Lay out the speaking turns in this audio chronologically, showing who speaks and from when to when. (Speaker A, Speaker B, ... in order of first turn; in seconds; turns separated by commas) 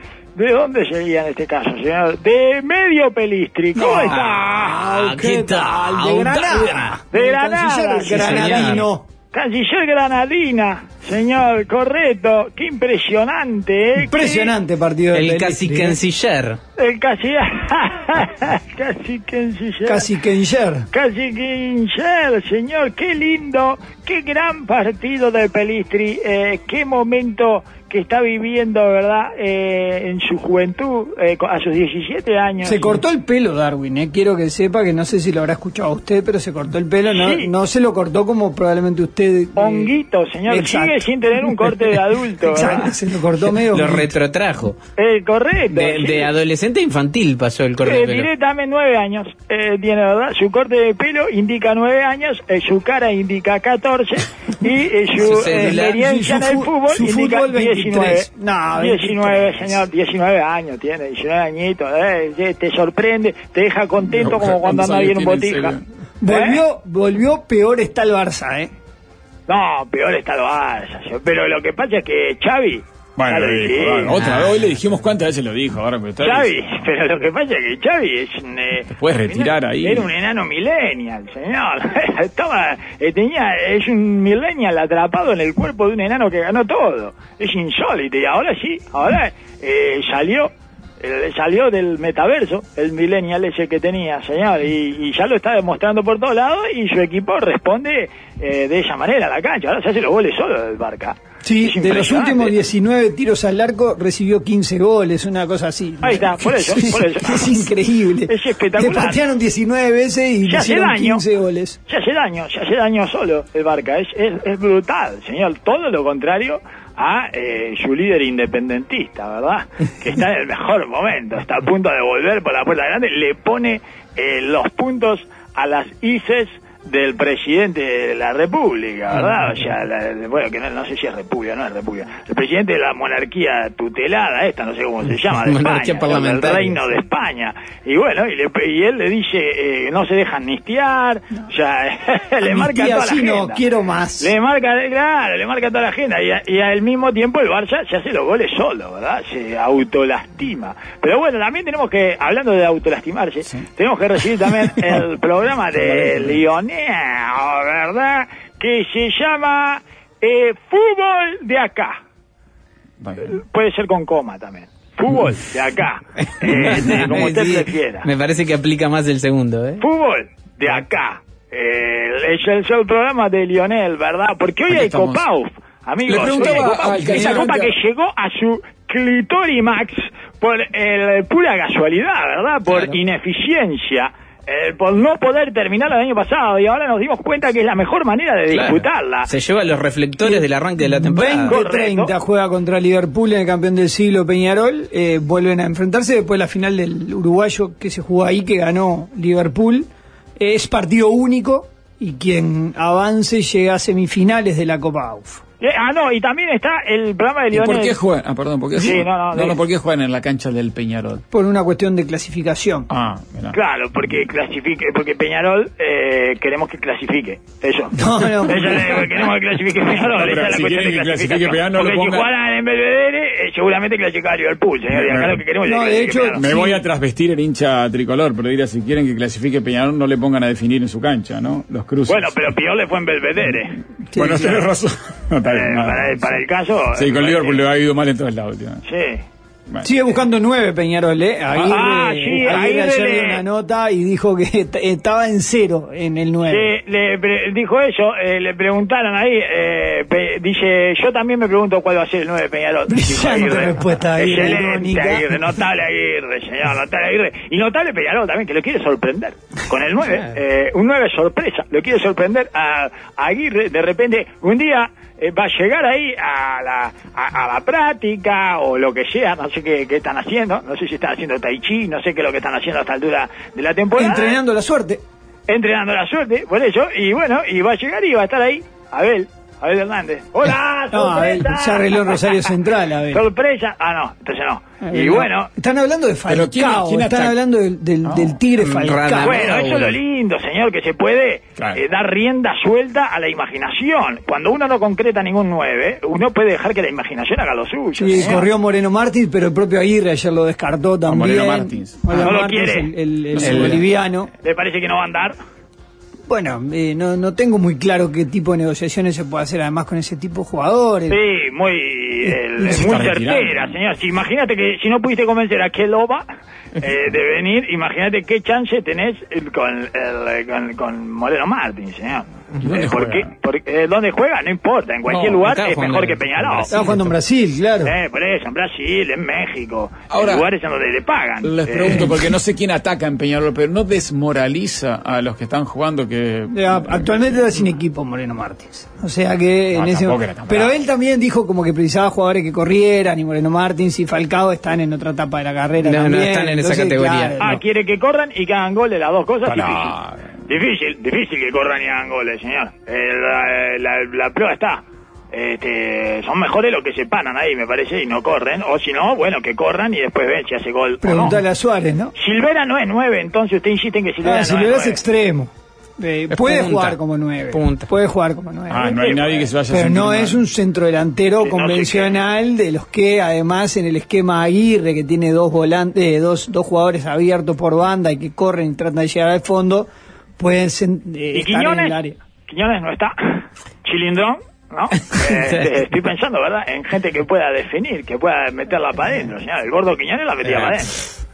Speaker A: 0.3-4.8, Speaker B: 3.7-9.1, Speaker C: 4.0-7.0, Speaker A: 7.1-14.5, Speaker C: 8.0-8.8, Speaker B: 14.0-16.0, Speaker C: 15.1-16.6, Speaker A: 16.8-20.1, Speaker B: 19.9-20.9, Speaker A: 20.9-33.0, Speaker B: 32.6-39.9, Speaker A: 37.1-37.5, Speaker A: 39.5-42.9, Speaker B: 40.5-41.1, Speaker B: 42.4-44.1, Speaker C: 43.5-44.8, Speaker A: 45.0-46.3, Speaker C: 45.7-48.3, Speaker A: 47.8-66.6, Speaker C: 55.1-56.0, Speaker B: 55.3-59.6, Speaker D: 64.1-65.8, Speaker B: 66.2-68.7, Speaker A: 69.5-74.2, Speaker D: 73.2-76.8, Speaker C: 74.1-74.7, Speaker A: 76.2-102.6, Speaker D: 78.9-80.1, Speaker B: 101.4-111.8, Speaker A: 106.0-107.7, Speaker A: 108.2-109.2, Speaker A: 110.4-111.2, Speaker A: 111.9-143.6, Speaker C: 135.3-136.8, Speaker B: 142.4-144.3, Speaker A: 144.2-162.0, Speaker D: 155.8-156.4, Speaker D: 163.0-163.3, Speaker A: 163.2-168.1, Speaker C: 166.3-169.8, Speaker A: 169.8-189.3, Speaker D: 174.7-175.2, Speaker D: 176.1-177.7, Speaker B: 176.2-177.5, Speaker C: 188.5-191.6, Speaker B: 190.2-205.4, Speaker A: 191.5-192.1, Speaker A: 205.6-208.0, Speaker D: 207.5-211.2, Speaker A: 208.7-209.6, Speaker B: 211.3-212.9, Speaker D: 212.9-213.6, Speaker A: 213.5-226.4, Speaker B: 217.9-219.3, Speaker D: 220.0-222.3, Speaker D: 224.9-225.4, Speaker B: 225.6-226.8, Speaker D: 226.3-232.3, Speaker A: 232.1-233.8, Speaker B: 234.1-234.7, Speaker D: 234.1-236.4, Speaker A: 235.4-237.6, Speaker D: 236.9-238.8, Speaker A: 238.8-239.2, Speaker B: 239.8-246.7, Speaker D: 241.5-242.6, Speaker A: 241.7-243.4, Speaker A: 246.4-274.4, Speaker B: 252.9-255.3, Speaker B: 273.9-275.0, Speaker A: 275.5-282.5, Speaker B: 280.9-283.2, Speaker A: 283.1-285.5, Speaker B: 284.8-289.5, Speaker D: 286.3-287.4, Speaker D: 288.0-288.4, Speaker C: 288.6-290.0, Speaker A: 289.2-298.4, Speaker B: 297.9-304.3, Speaker D: 301.1-302.0, Speaker A: 302.1-302.9, Speaker C: 303.4-303.8, Speaker A: 304.4-305.4, Speaker B: 306.3-311.2, Speaker A: 311.1-316.2, Speaker B: 312.6-313.1, Speaker D: 312.6-313.8, Speaker A: 316.8-326.9, Speaker D: 322.6-323.3, Speaker C: 325.1-327.1, Speaker B: 326.7-327.9, Speaker A: 327.8-332.2, Speaker D: 330.1-330.5, Speaker D: 331.4-337.1, Speaker B: 336.5-347.6, Speaker D: 339.7-340.7, Speaker C: 345.8-347.4, Speaker A: 347.4-349.9, Speaker D: 349.4-350.3, Speaker A: 350.4-361.4, Speaker B: 361.0-362.1, Speaker A: 362.1-365.0, Speaker B: 364.2-382.2, Speaker C: 366.3-367.0, Speaker C: 367.5-367.9, Speaker D: 368.7-370.4, Speaker A: 368.9-369.4, Speaker A: 371.4-372.2, Speaker A: 381.3-391.0, Speaker C: 385.2-385.7, Speaker C: 390.4-390.8